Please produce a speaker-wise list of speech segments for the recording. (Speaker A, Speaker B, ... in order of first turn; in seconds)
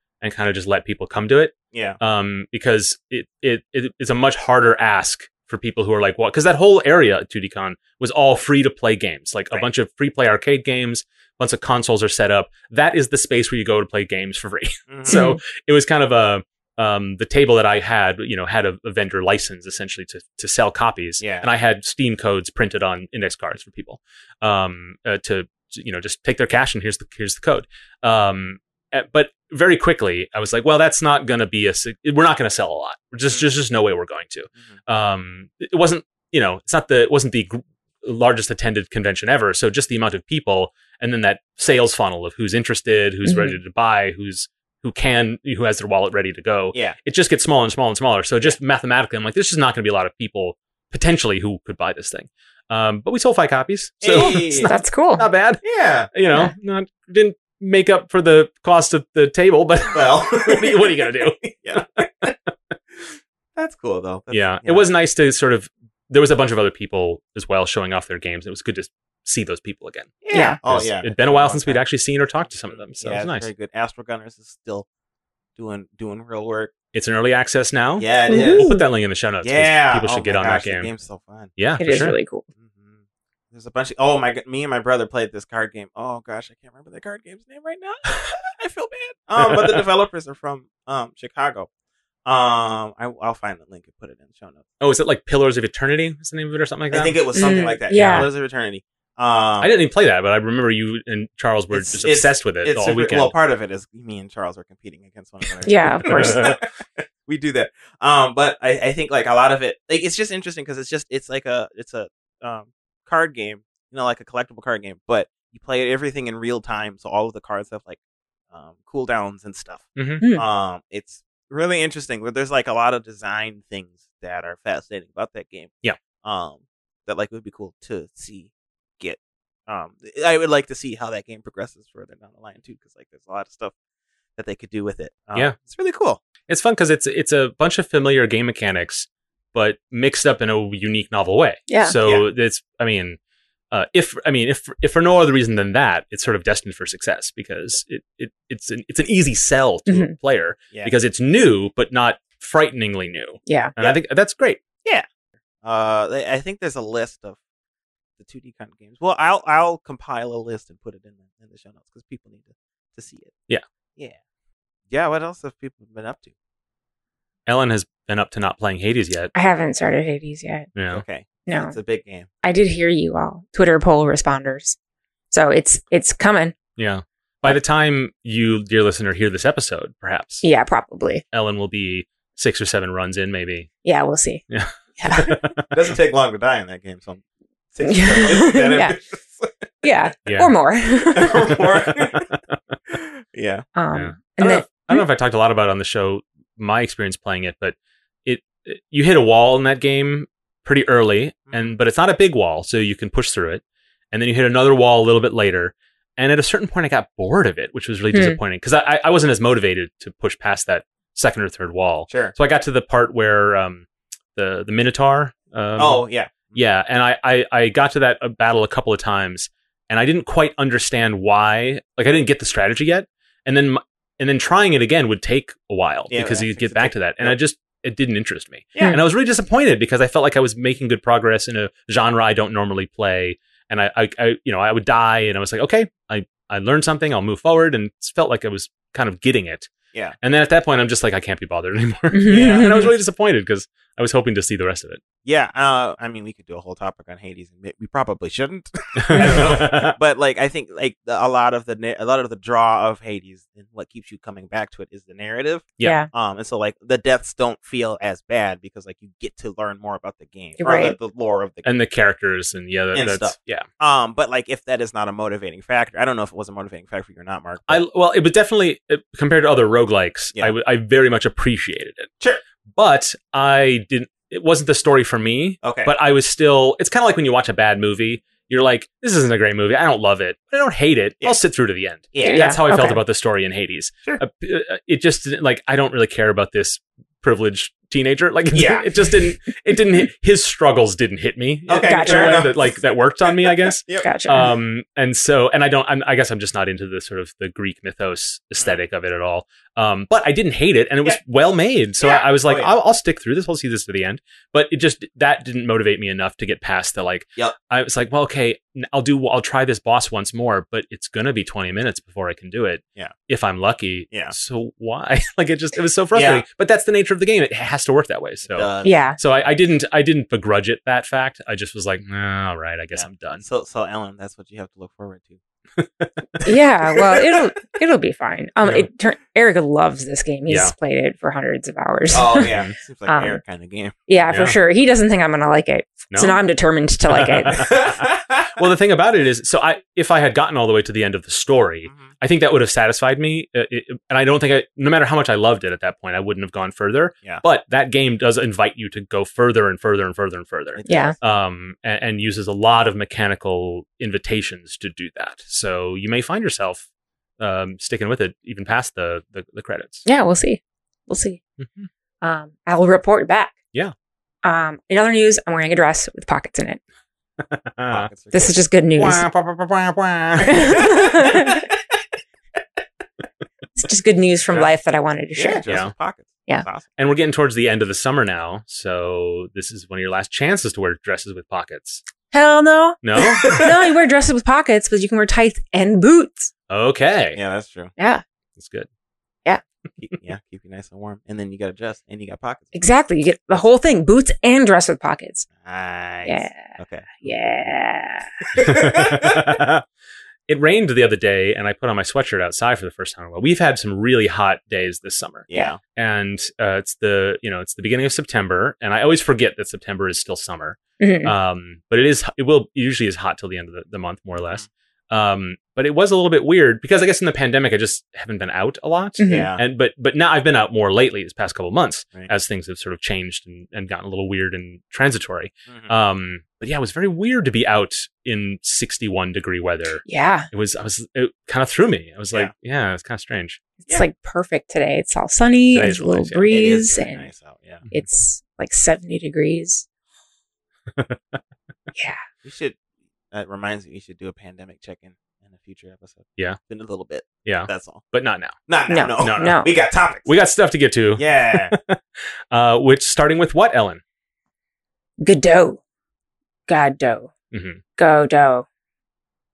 Speaker A: 0.2-62.3, 64.3-73.5, 76.9-80.9, 81.6-82.2, 89.4-89.8, 94.8-98.3, 99.6-103.3, 106.1-106.5, 120.0-120.2, 136.5-143.2, 143.7-154.6, 167.5-169.3, 170.8-171.0, 176.8-180.4, 181.3-183.7, 184.5-185.7, 190.3-190.5, 191.4-192.3, 193.9-197.8, 198.3-239.7, 240.2-245.0, 249.0-250.0, 261.6-263.6, 267.7-272.1, 272.8-323.4, 325.8-326.3, 330.5-330.7, 332.4-332.7, 334.3-334.6, 336.1-336.4, 337.1-356.9, 357.4-360.1, 361.6-361.9, 367.5-368.1, 369.0-370.9, 375.7-375.9, 377.0-382.0, 383.0-383.7, 386.7-387.4, 388.6-388.9, 398.6-399.8, 400.5-433.6, 435.7-436.5, 440.9-441.4, 447.4-448.6, 449.2-449.6, 450.2-452.0, 452.5-454.0, 457.5-457.8
Speaker B: 1.7-2.0, 14.9-15.2, 21.2-21.5, 54.0-54.7, 55.6-56.1, 59.9-62.3, 63.6-64.8, 70.2-71.8, 72.9-74.9, 75.6-76.7, 78.0-78.7, 79.4-81.5, 82.6-83.0, 83.5-91.7, 92.3-94.7, 96.9-99.7, 101.7-118.0, 118.5-133.7, 134.4-136.2, 155.6-157.4, 158.2-163.3, 164.9-166.3, 170.9-172.3, 185.7-189.7, 191.2-192.3, 192.9-193.7, 212.1-212.3, 215.8-216.6, 226.1-227.4, 228.8-229.0, 242.3-242.9, 245.2-261.7, 262.9-267.8, 275.6-275.9, 282.1-282.5, 288.5-288.9, 291.7-294.5, 302.0-302.7, 316.1-316.4, 318.5-319.0, 322.9-325.4, 332.1-333.9, 337.6-338.5, 350.8-351.2, 367.9-368.6, 370.7-371.0, 375.4-376.9, 383.4-383.7, 387.3-387.9, 390.0-392.9, 395.6-397.3, 398.6-399.4, 405.5-405.8, 419.3-419.6, 425.7-425.9, 436.5-437.9, 442.4-442.8, 443.3-448.0, 448.7-450.3, 451.2-451.7
Speaker C: 15.1-15.4, 43.2-43.6, 54.2-55.2, 78.3-78.8, 81.8-82.5, 97.3-98.3, 105.7-106.5, 141.7-141.9, 149.9-150.1, 153.5-153.7, 169.3-170.7, 171.5-171.8, 172.4-174.8, 175.3-176.6, 180.4-181.2, 183.8-184.4, 185.0-185.4, 187.8-189.0, 189.8-191.6, 193.8-195.0, 208.1-208.4, 242.1-242.9, 249.1-249.5, 255.8-256.1, 260.6-260.9, 282.2-283.0, 291.8-292.5, 294.0-294.5, 318.8-319.2, 326.4-332.5, 333.1-333.4, 334.1-337.8, 350.9-351.1, 360.1-361.4, 362.2-363.6, 364.4-366.8, 368.3-369.2, 370.4-371.6, 373.8-375.6, 382.3-386.5, 388.0-388.2, 392.7-395.5, 396.2-398.3, 411.0-411.3, 419.2-419.5, 430.1-430.5, 433.8-437.3, 437.9-439.9, 441.9-442.2, 448.9-449.7, 455.2-455.8, 456.7-457.3, 458.0-458.7